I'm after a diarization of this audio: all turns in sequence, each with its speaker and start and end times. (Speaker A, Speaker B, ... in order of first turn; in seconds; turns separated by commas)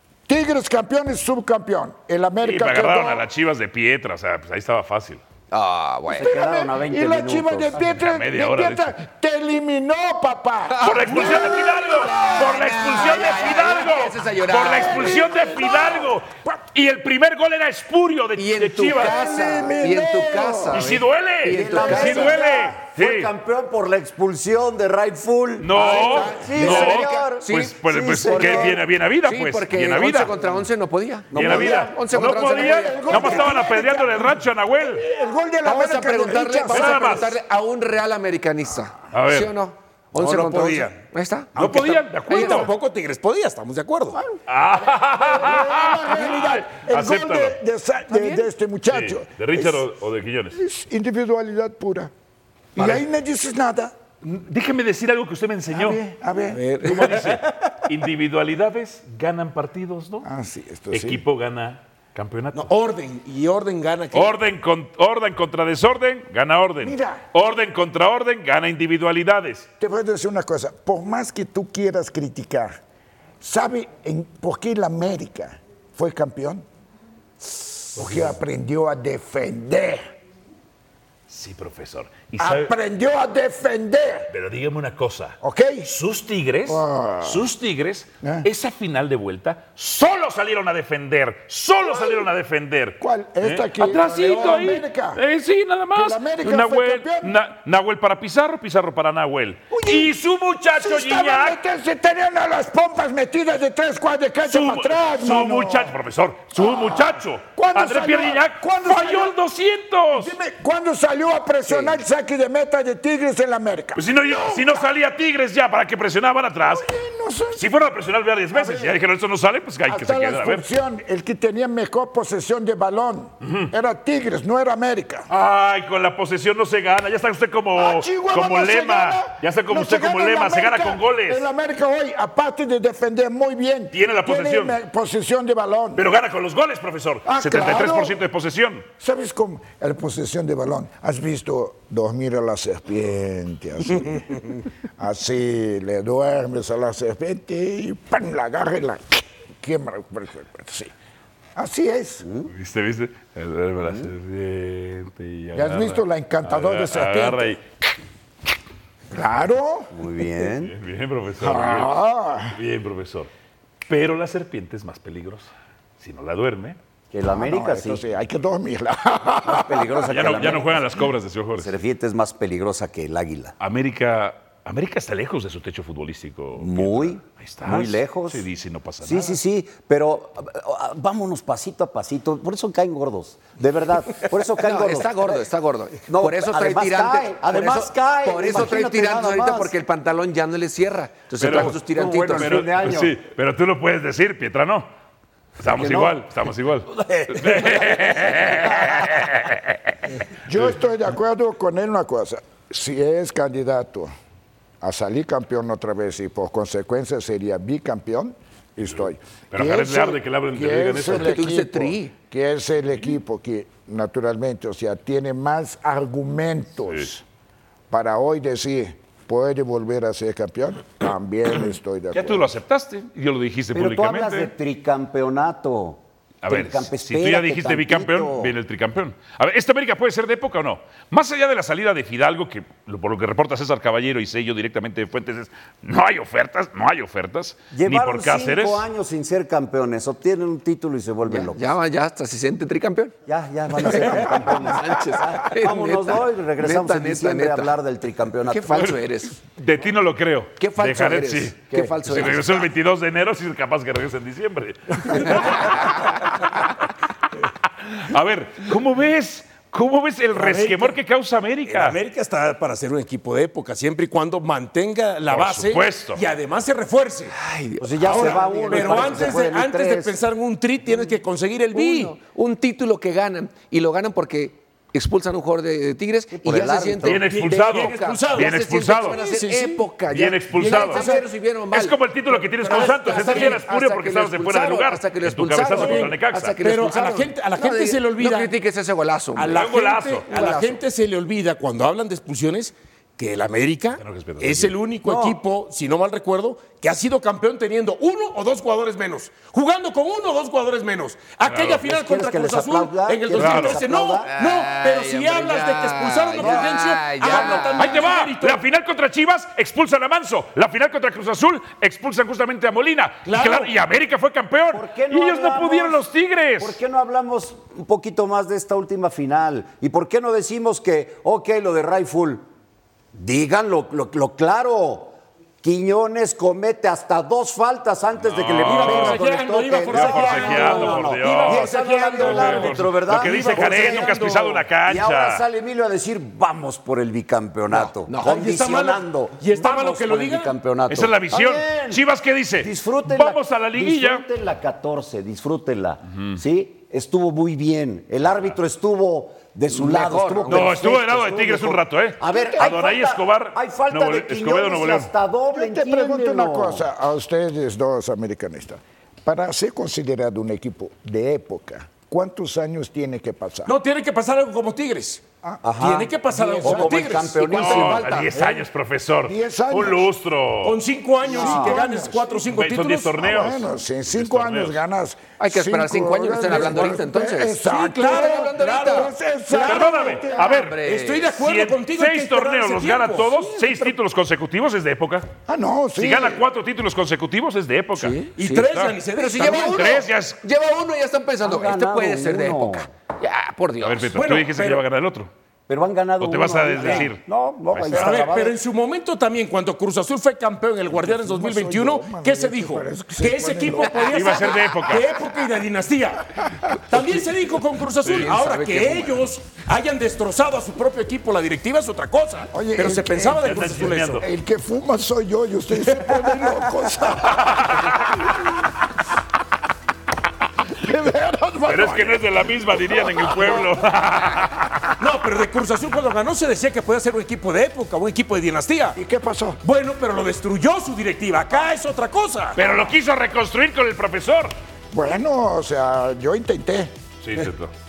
Speaker A: 0.3-3.2, Speaker B: 2.4-5.2, Speaker C: 5.5-6.3, Speaker D: 6.1-7.8, Speaker A: 6.1-12.6, Speaker B: 7.9-8.9, Speaker C: 10.8-11.5, Speaker B: 10.8-19.4, Speaker C: 12.1-15.1, Speaker A: 14.7-16.1, Speaker C: 18.4-22.3, Speaker A: 19.0-20.8, Speaker B: 20.7-23.3, Speaker D: 21.4-28.8, Speaker A: 21.6-22.8, Speaker B: 25.6-30.3, Speaker C: 25.8-33.4, Speaker D: 31.3-33.4, Speaker B: 31.3-35.0, Speaker A: 32.3-37.3, Speaker C: 35.6-41.6, Speaker B: 36.7-37.3, Speaker B: 39.1-39.5, Speaker E: 40.1-41.0, Speaker E: 41.5-44.2, Speaker B: 41.5-42.7, Speaker C: 42.3-42.7, Speaker B: 44.5-47.6, Speaker A: 45.1-49.8, Speaker B: 48.2-50.6, Speaker A: 50.5-52.1, Speaker A: 52.8-53.9, Speaker B: 54.2-56.0, Speaker A: 55.7-56.6, Speaker E: 56.6-57.3, Speaker B: 56.8-60.2, Speaker A: 60.2-61.2, Speaker B: 60.9-62.7, Speaker E: 62.5-64.3, Speaker B: 64.1-69.7, Speaker A: 66.8-67.2, Speaker A: 69.8-72.8, Speaker A: 73.4-76.6, Speaker A: 77.9-80.0, Speaker B: 78.0-78.4, Speaker B: 81.3-82.8, Speaker A: 82.4-84.3, Speaker B: 84.3-101.6, Speaker A: 85.4-85.9, Speaker A: 86.7-87.4, Speaker A: 91.8-92.3, Speaker A: 93.0-95.2, Speaker A: 95.9-97.3, Speaker A: 99.7-100.1, Speaker A: 100.8-106.0, Speaker B: 104.4-110.3, Speaker A: 106.6-109.3, Speaker A: 110.1-114.8, Speaker B: 114.0-116.9, Speaker A: 116.7-117.7, Speaker B: 117.6-120.6, Speaker A: 118.5-119.0, Speaker A: 119.9-125.3, Speaker B: 123.4-123.7, Speaker B: 125.3-131.5, Speaker A: 127.8-136.0, Speaker B: 133.9-134.8, Speaker B: 135.9-138.8, Speaker A: 137.2-138.2, Speaker A: 139.0-150.9, Speaker A: 151.6-152.2, Speaker D: 152.2-152.5, Speaker B: 152.5-157.6, Speaker A: 155.5-157.6, Speaker A: 159.1-159.9, Speaker D: 159.9-160.7, Speaker B: 160.7-162.0, Speaker A: 161.4-162.5, Speaker B: 162.5-163.3, Speaker B: 163.9-166.8, Speaker D: 167.1-168.0, Speaker A: 167.2-170.7, Speaker D: 169.4-171.1, Speaker B: 170.1-171.7, Speaker D: 171.6-173.5, Speaker B: 173.6-179.4, Speaker D: 176.6-178.5, Speaker D: 179.0-185.5, Speaker C: 184.6-192.6, Speaker D: 186.1-189.7, Speaker B: 191.4-194.9, Speaker D: 191.4-193.2, Speaker B: 195.6-199.6, Speaker D: 195.6-196.3, Speaker D: 197.1-199.0, Speaker A: 200.5-204.1, Speaker A: 204.8-217.2, Speaker B: 209.5-211.4, Speaker C: 211.0-212.1, Speaker A: 217.9-222.5, Speaker B: 222.1-224.5, Speaker D: 223.7-228.5, Speaker B: 226.4-238.9, Speaker D: 237.7-241.7, Speaker C: 241.3-243.1, Speaker D: 243.2-249.0, Speaker C: 243.8-247.7, Speaker C: 248.5-249.3, Speaker B: 249.5-255.8, Speaker C: 250.6-252.7, Speaker C: 255.5-256.1, Speaker B: 257.8-262.0, Speaker E: 260.4-261.0, Speaker E: 261.6-267.4, Speaker B: 265.3-266.2, Speaker C: 267.3-269.4, Speaker D: 267.8-270.2, Speaker E: 268.0-272.2, Speaker C: 271.7-282.0, Speaker D: 276.3-277.2, Speaker B: 277.0-279.2, Speaker E: 277.2-279.9, Speaker B: 280.1-281.1, Speaker E: 280.4-281.2, Speaker B: 281.7-286.6, Speaker E: 282.6-283.6, Speaker C: 282.6-289.6, Speaker E: 285.7-288.5, Speaker E: 289.4-308.6, Speaker B: 289.5-290.5, Speaker C: 290.3-290.8, Speaker B: 294.0-294.8, Speaker D: 295.0-295.4, Speaker B: 301.4-301.8, Speaker D: 301.8-304.3, Speaker B: 303.3-303.8, Speaker C: 304.3-308.0, Speaker D: 306.4-307.9, Speaker B: 307.8-316.8, Speaker E: 313.2-313.7, Speaker D: 314.7-316.1, Speaker D: 316.6-322.5, Speaker D: 323.1-342.0, Speaker B: 328.2-329.2, Speaker E: 328.5-334.6, Speaker B: 329.9-335.4, Speaker C: 338.1-338.4, Speaker E: 338.2-340.5, Speaker B: 340.9-344.2, Speaker D: 342.6-356.9, Speaker C: 349.8-350.7, Speaker B: 350.5-355.1, Speaker A: 355.5-363.8, Speaker E: 363.6-365.2, Speaker A: 365.4-367.3, Speaker D: 365.6-368.3, Speaker E: 365.8-368.1, Speaker B: 367.5-370.8, Speaker A: 367.9-368.6, Speaker A: 369.2-370.1, Speaker E: 370.6-373.2, Speaker A: 371.2-372.4, Speaker D: 371.3-371.8, Speaker B: 372.5-374.8, Speaker A: 373.2-380.7, Speaker C: 375.4-379.1, Speaker E: 377.6-383.9, Speaker B: 379.6-380.8, Speaker C: 380.5-381.3, Speaker B: 381.3-385.3, Speaker A: 385.5-386.4, Speaker B: 386.0-390.4, Speaker C: 387.9-388.4, Speaker E: 388.4-390.0, Speaker C: 389.1-394.1, Speaker D: 391.4-392.9, Speaker B: 393.8-395.3, Speaker E: 394.1-394.8, Speaker D: 395.7-398.6, Speaker B: 396.2-398.2, Speaker E: 396.8-397.1, Speaker E: 397.9-406.2, Speaker A: 400.9-404.1, Speaker B: 404.1-405.1, Speaker E: 406.9-414.2, Speaker C: 408.1-409.2, Speaker A: 412.5-413.6, Speaker B: 413.4-414.2, Speaker A: 414.2-418.3, Speaker B: 417.3-418.1, Speaker A: 420.7-422.2, Speaker B: 421.6-424.9, Speaker A: 422.9-423.8, Speaker E: 425.0-429.0, Speaker A: 429.0-429.6, Speaker E: 429.6-432.6, Speaker B: 432.6-434.5, Speaker A: 434.9-436.9, Speaker B: 437.2-437.7